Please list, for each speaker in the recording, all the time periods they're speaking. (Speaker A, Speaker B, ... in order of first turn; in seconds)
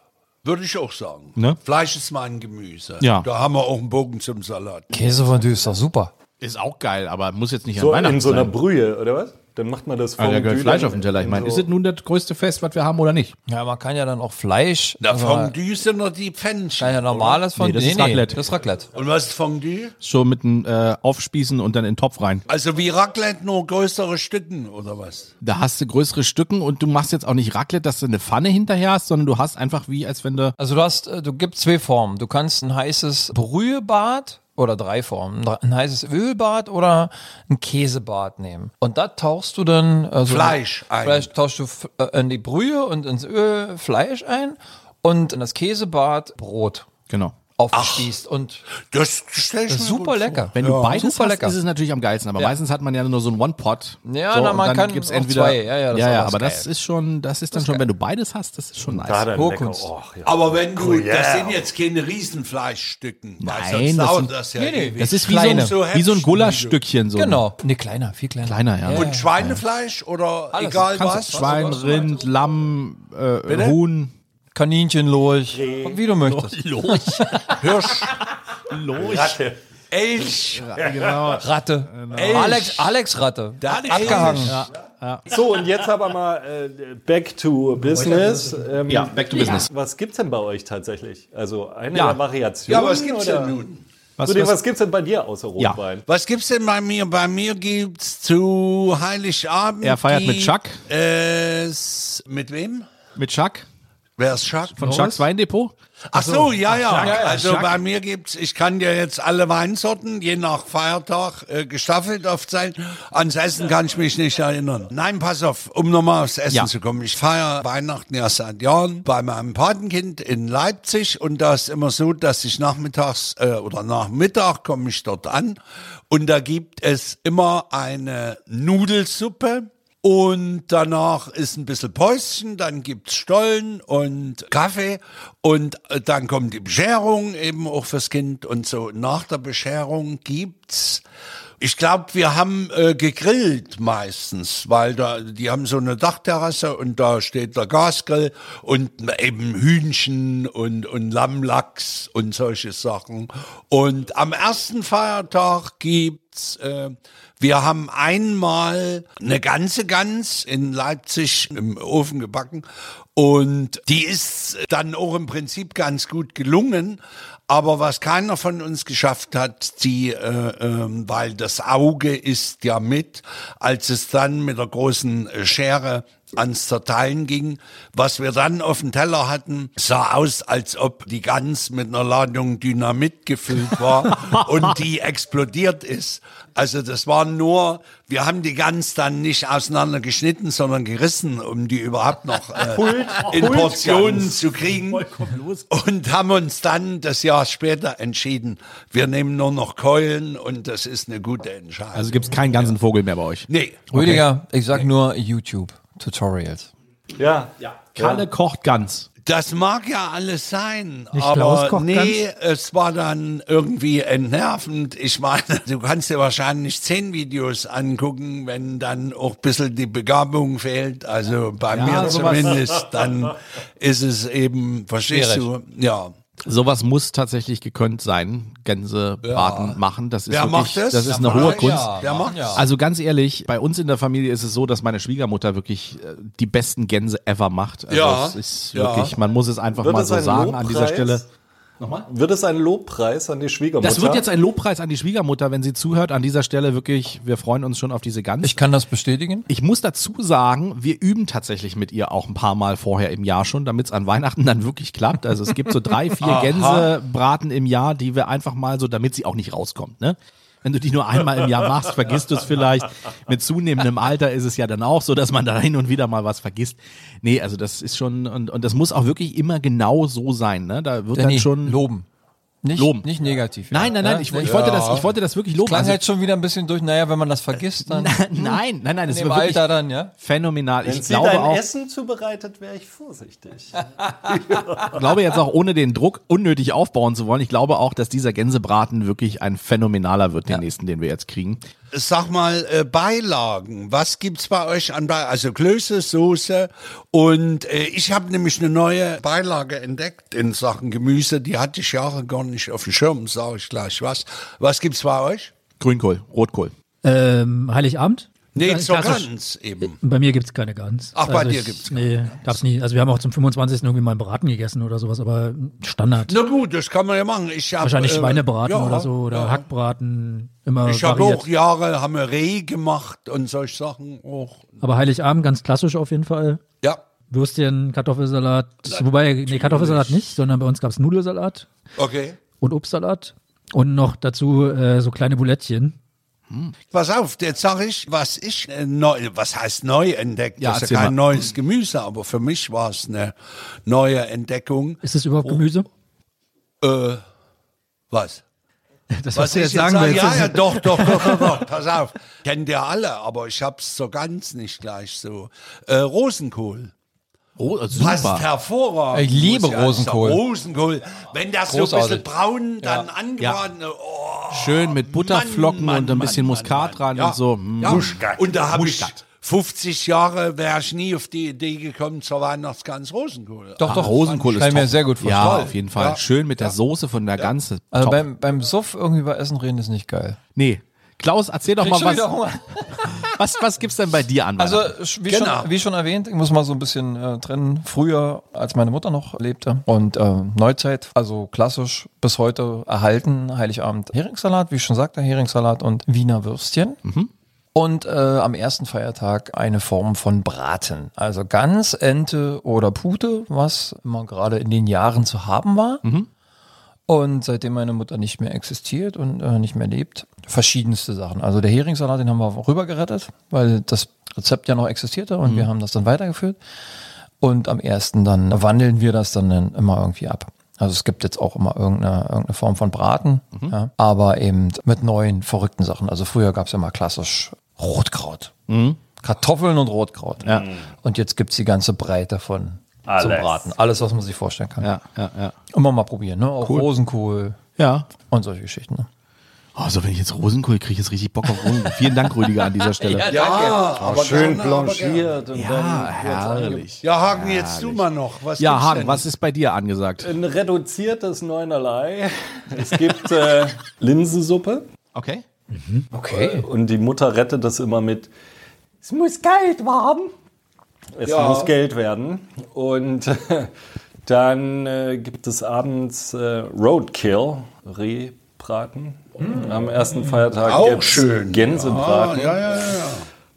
Speaker A: 0.4-4.9, 15.0-17.4, 18.9-19.9, 22.5-25.3, 40.2-41.3, 47.7-48.1, 48.8-51.0, 60.2-66.8, 68.9-71.8, 73.5-73.8, 77.6-78.2, 79.0-79.4, 79.9-80.9, 82.1-82.9, 83.6-84.6, 92.7-93.8, 96.1-102.9, 104.2-105.2, 106.1-125.6, 126.1-141.0, 141.6-195.1, 195.7-202.7, 203.5-203.9, 209.2-226.1, 229.2-232.7, 237.9-239.1, 256.2-256.9, 274.5-275.0, 291.9-305.5, 308.5-310.0, 311.1-312.6, 316.2-319.7, 320.9-324.7, 328.9-330.3, 332.0-332.4, 336.9-343.4, 343.9-345.6, 346.8-347.2, 348.1-348.4, 349.3-356.9, 357.9-376.8, 385.3-385.7, 443.2-445.3, 447.0-449.3, 461.2-461.8, 470.6-473.2
Speaker B: 3.0-3.3, 6.4-8.5, 10.2-13.3, 17.6-18.4, 20.0-22.4, 25.4-30.5, 47.1-47.4, 50.5-59.3, 63.4-64.3, 65.0-67.4, 68.4-69.6, 70.8-74.1, 76.2-78.1, 78.7-79.4, 80.5-82.7, 84.0-85.3, 88.9-89.7, 91.9-92.2, 94.2-94.6, 99.8-100.8, 103.2-103.7, 104.8-107.8, 194.7-195.7, 201.9-204.2, 207.9-209.1, 221.7-222.7, 226.4-241.2, 241.8-242.1, 243.8-248.7, 249.5-271.8, 272.8-273.1, 273.7-276.0, 277.9-281.6, 284.8-291.6, 305.8-306.7, 340.6-341.4, 357.6-358.5, 364.5-369.2, 373.8-378.2, 380.6-382.3, 383.3-384.9, 397.0-397.3, 428.7-429.0, 430.4-430.7, 434.8-435.5, 436.6-436.9, 437.8-438.1, 439.8-443.3, 445.5-448.1, 448.6-450.3, 455.1-455.4
Speaker C: 4.9-6.1, 13.5-15.5, 16.8-18.9, 30.6-46.9, 47.6-48.6, 49.7-51.6, 54.1-56.7, 57.5-57.9, 59.3-59.9, 64.5-65.7, 67.1-69.4, 70.5-72.2, 74.5-77.7, 81.3-84.6, 106.9-107.4, 203.9-206.7, 225.1-225.5, 231.1-232.6, 248.4-249.5, 271.1-272.1, 272.6-280.1, 359.1-360.4, 361.7-362.2, 362.8-363.1, 373.8-375.7, 377.9-380.4, 381.8-383.4, 384.6-397.0, 397.8-406.0, 407.1-416.6, 417.4-428.5, 429.2-434.9, 435.7-437.6, 438.2-439.1, 443.0-444.1, 456.1-456.6
Speaker D: 7.8-11.7, 58.9-61.6, 75.5-76.0, 79.0-79.6, 80.8-81.3, 85.3-93.6, 94.2-96.0, 192.6-194.4, 207.2-208.2, 239.8-241.2, 242.1-244.3, 280.8-285.0, 433.1-433.6, 443.7-446.9, 450.2-454.9, 456.2-458.3, 459.0-460.3, 461.1-463.7, 464.2-472.7
Speaker E: 211.1-212.2, 307.0-309.3, 309.8-316.4, 317.8-321.4, 324.8-326.6, 327.3-331.7, 332.5-336.0, 345.0-345.9, 349.1-351.5, 455.7-456.1